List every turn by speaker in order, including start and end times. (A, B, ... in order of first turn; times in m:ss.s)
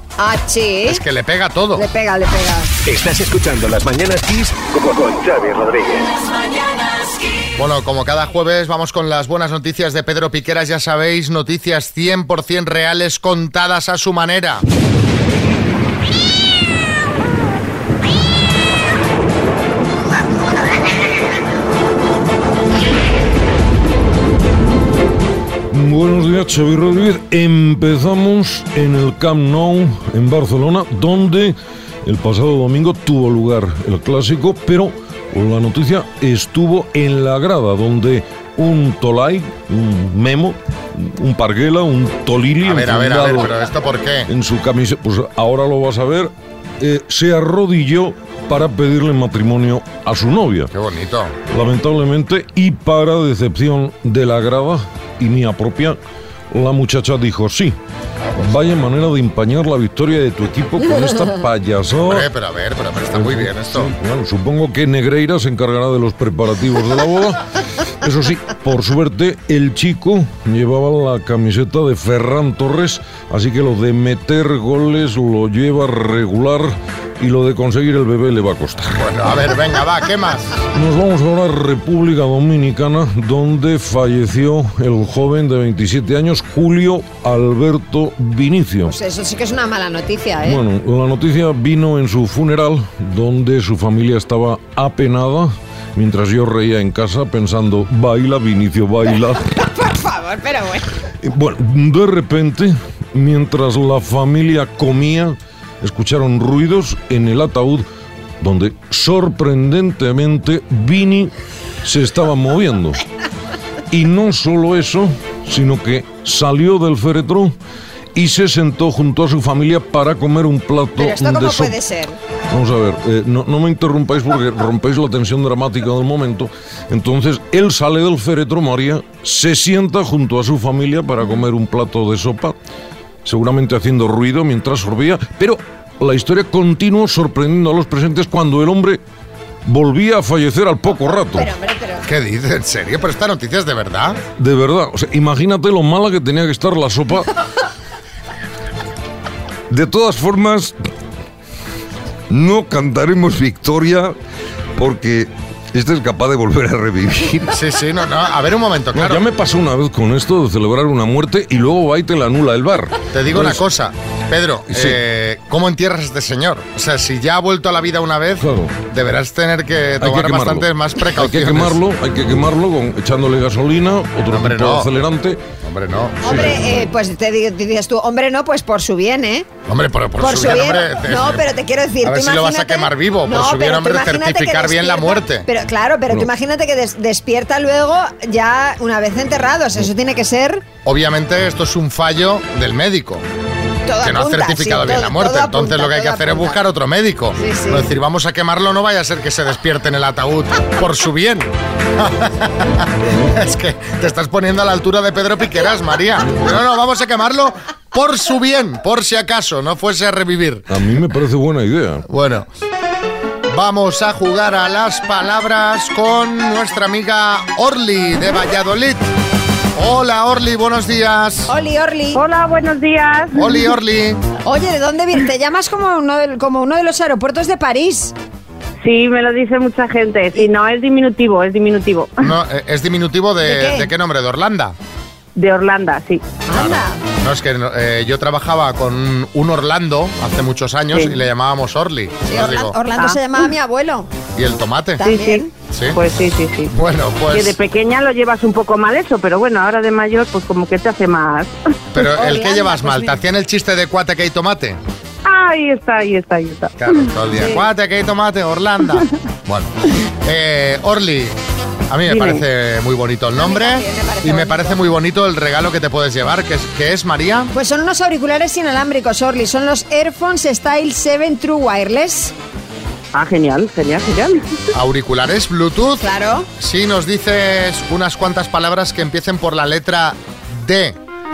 0:00.2-0:01.0 A
0:00.9-0:01.8 B
0:01.8-0:02.7 A
0:02.8-0:06.0 C
0:07.6-0:14.6 B
0:25.7-0:43.6 D
0:42.6-0:44.3 B
0:44.3-0:50.7 D
0:50.7-0:51.4 B
0:51.5-0:56.0 D
0:56.5-0:57.8 D
0:58.4-1:02.3 D
1:02.0-1:03.9 B
1:03.1-1:07.4 D
1:08.0-1:18.9 D
1:18.9-1:20.6 B
1:20.7-1:29.0 D
1:28.9-1:30.6 A
1:30.4-1:39.4 D
1:39.4-1:40.9 A
1:41.2-1:47.8 D
1:48.4-1:51.3 D
1:51.8-1:53.0 D
1:53.9-1:57.6 D
1:58.2-2:01.8 D
2:01.0-2:02.2 A
2:02.5-2:12.6 D
2:13.2-2:19.0 D
2:19.6-2:21.5 D
2:21.2-2:22.1 A
2:22.1-2:24.2 B
2:24.4-2:27.3 D
2:29.7-2:30.7 D
2:32.3-2:34.2 D
2:34.8-2:37.5 D
2:37.5-2:39.2 B
2:38.9-2:43.6 D
2:43.1-2:51.8 B
2:44.7-2:45.0 D
2:48.4-2:48.8 D
2:50.0-2:55.4 D
2:54.3-2:54.9 B
2:55.6-2:56.6 B
2:56.2-2:59.5 A
2:56.3-2:56.6 D
2:59.7-3:01.4 B
3:00.2-3:10.6 A
3:02.0-3:05.5 B
3:10.8-3:13.2 B
3:13.9-3:16.6 A
3:14.0-3:30.6 B
3:17.4-3:17.9 A
3:30.7-3:32.1 D
3:32.1-3:32.5 B
3:33.5-3:39.1 B
3:39.8-3:41.5 B
3:41.5-3:42.2 A
3:42.2-3:43.4 E
3:43.4-3:44.2 B
3:44.4-3:48.1 A
3:48.8-3:52.3 E
3:52.2-3:54.8 B
3:53.4-3:53.9 A
3:55.4-3:56.4 E
3:56.5-3:57.0 A
3:56.5-4:02.8 B
4:02.3-4:04.1 A
4:04.4-4:05.0 B
4:05.0-4:05.5 A
4:05.0-4:06.7 E
4:05.7-4:06.0 B
4:06.7-4:07.6 B
4:07.3-4:11.5 E
4:11.9-4:14.8 B
4:12.2-4:13.2 A
4:15.2-4:17.0 E
4:16.8-4:21.4 B
4:21.9-4:27.5 B
4:22.1-4:22.4 E
4:23.4-4:24.8 A
4:27.5-4:32.3 A
4:33.1-4:34.5 E
4:34.7-4:41.0 B
4:36.0-4:36.5 A